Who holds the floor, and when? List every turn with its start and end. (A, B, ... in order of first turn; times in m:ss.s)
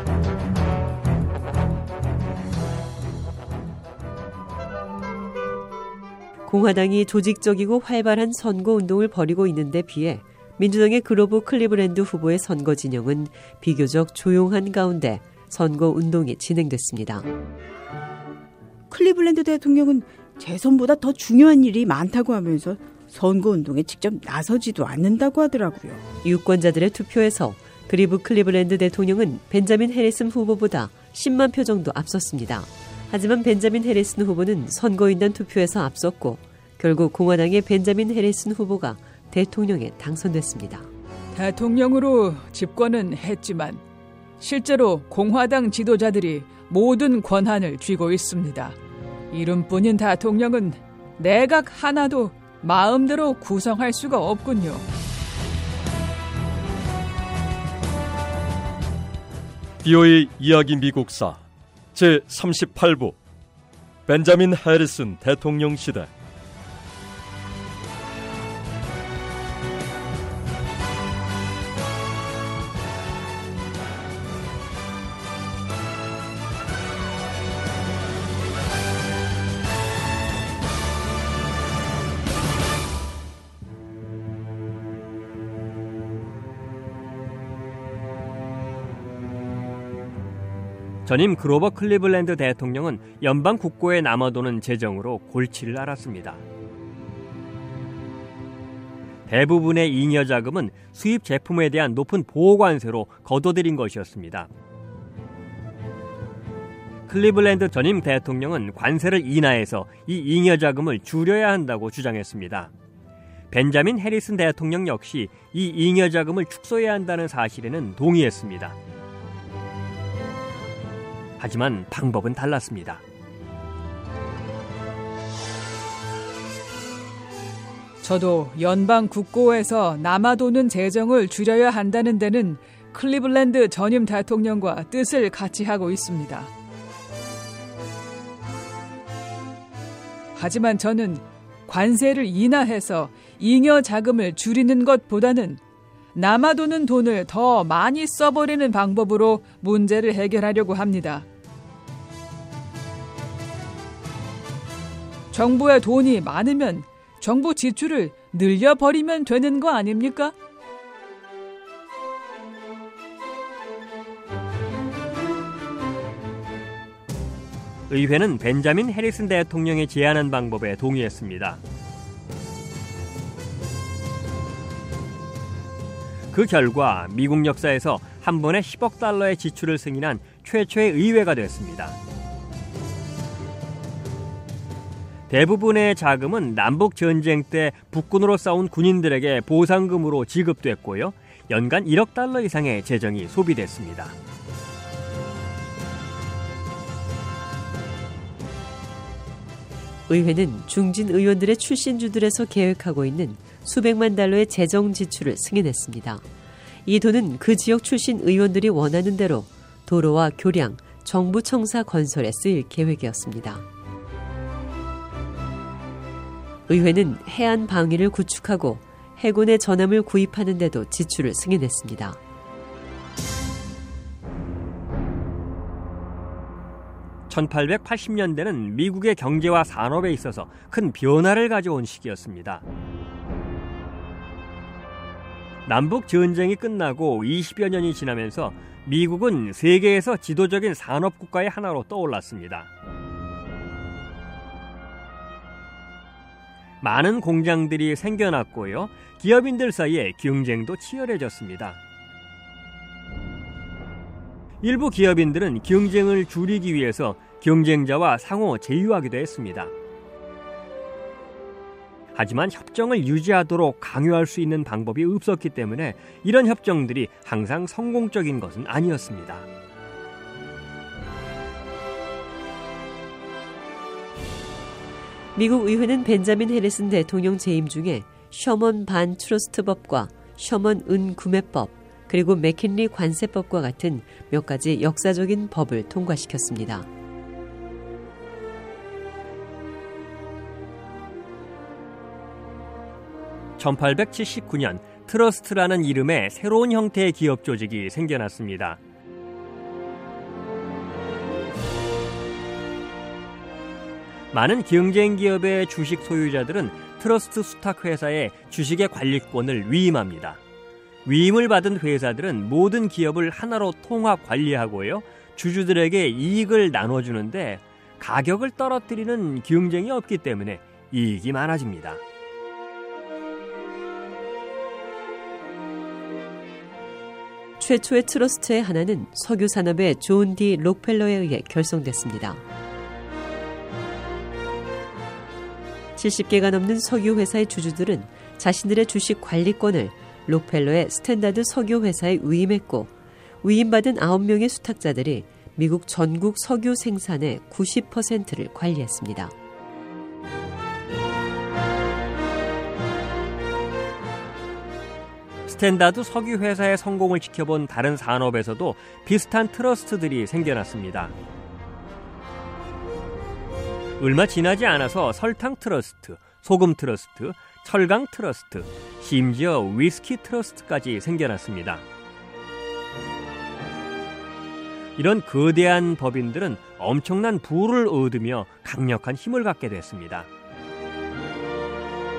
0:06.5-0:17.3 A
0:18.9-0:26.0 B
0:26.2-0:40.9 A
0:41.3-0:43.8 C
0:44.4-0:48.8 C
0:49.3-0:54.8 C
0:59.8-1:03.2 D
1:04.1-1:06.1 D
1:31.0-1:36.4 E
1:39.3-1:44.5 E
1:47.1-1:52.7 E
1:53.5-1:58.8 E
2:01.4-2:03.0 E
2:08.0-2:16.5 C
2:20.3-2:25.6 C
2:26.1-2:31.3 C
2:35.3-2:40.3 C
2:47.9-2:51.6 E
2:56.3-3:02.0 E
3:05.3-3:14.2 E
3:20.1-3:26.2 A
3:26.8-3:33.6 A
3:36.7-3:42.2 A
3:47.3-3:52.6 E
3:55.6-4:02.7 E
4:06.8-4:11.8 E
4:14.6-4:19.7 E
4:22.2-4:29.5 E
4:35.4-4:46.9 A
4:53.6-4:58.8 E
5:04.3-5:10.4 E
5:11.0-5:22.0 E
5:27.6-5:32.4 A
5:36.0-5:42.9 A
5:43.4-5:49.3 A
5:55.5-6:01.1 E
6:04.0-6:11.8 E
6:15.0-6:20.3 E